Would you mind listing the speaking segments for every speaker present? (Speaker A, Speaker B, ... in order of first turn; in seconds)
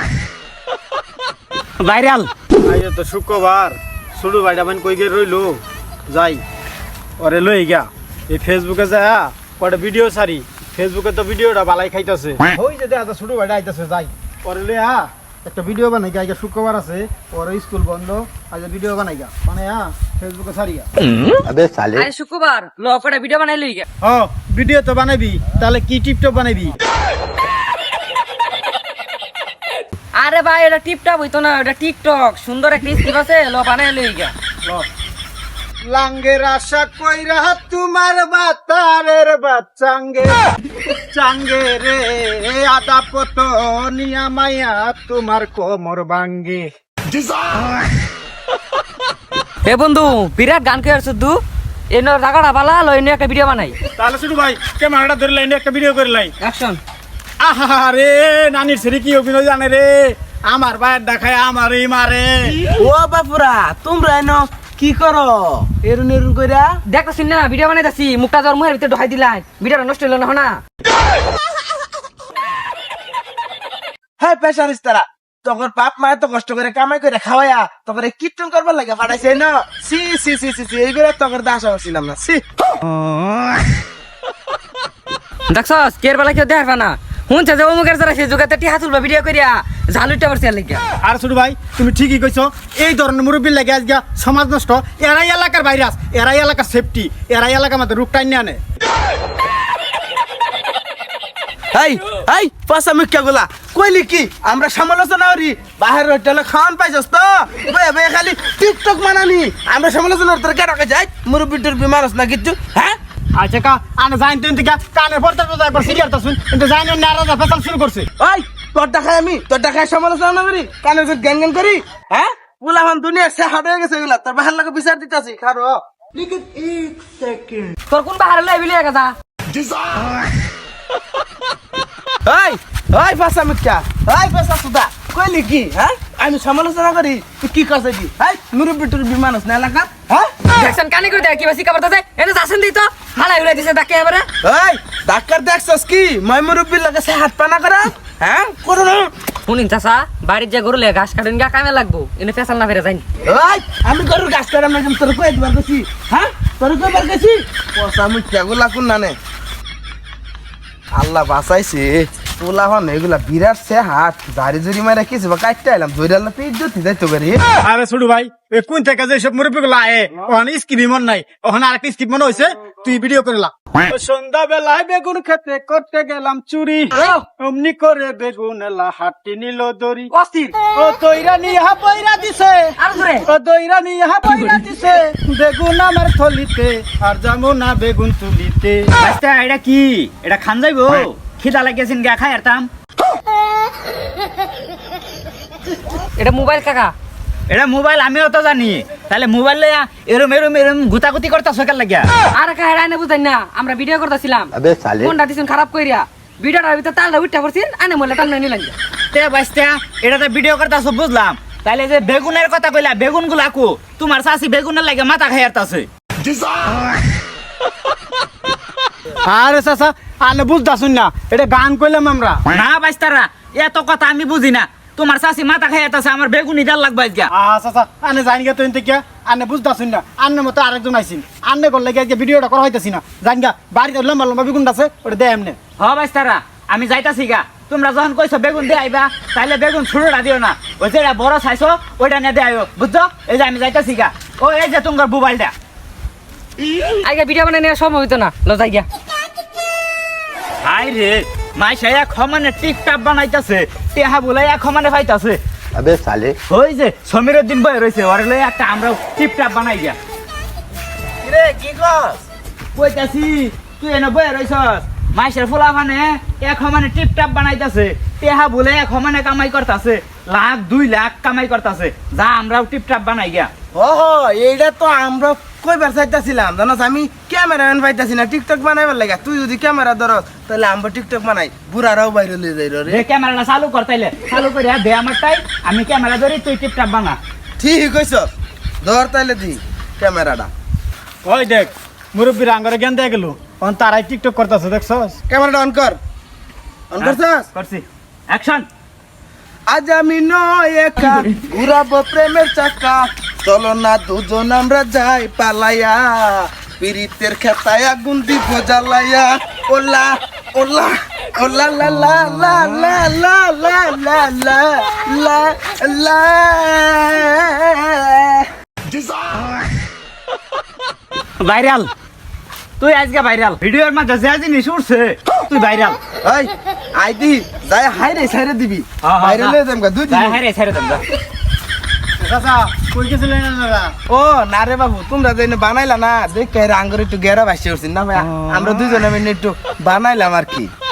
Speaker A: 1.8-2.3, 21.0-21.4, 189.0-192.7, 197.5-202.1, 209.1-215.9, 222.5-227.3, 235.8-245.5, 250.6-255.4, 256.5-260.0, 262.8-273.5, 282.9-287.2, 297.0-298.6, 321.4-321.9, 322.8-326.0, 329.0-329.6, 330.1-331.0
Speaker B: 2.6-6.4, 7.2-20.9, 24.0-26.8, 35.8-40.4, 41.1-46.7, 54.0-56.3, 57.4-62.6, 91.0-98.6, 113.3-118.1, 167.6-180.1, 180.7-188.9, 219.2-222.4, 227.3-235.6, 291.2-295.2, 332.2-333.9
Speaker C: 21.4-22.1, 204.6-205.1, 255.7-256.4
Speaker D: 21.9-23.8, 30.1-34.3, 49.6-51.4, 51.9-53.8, 56.4-56.8, 66.9-70.6, 85.5-90.8, 127.9-129.1, 140.5-144.3, 149.5-153.0, 180.1-180.6, 182.8-183.2, 184.2-184.7, 196.2-196.9, 202.3-208.7, 247.0-248.8
Speaker E: 62.6-66.8, 74.2-82.4, 101.7-113.0, 118.2-127.7, 129.5-129.9, 132.2-140.4, 144.4-149.1, 153.2-159.2, 160.9-167.4, 261.2-262.2, 273.7-283.0, 287.6-288.3, 288.8-290.5, 295.3-296.0, 296.9-297.5, 299.7-318.5, 326.2-330.4, 334.1-340.7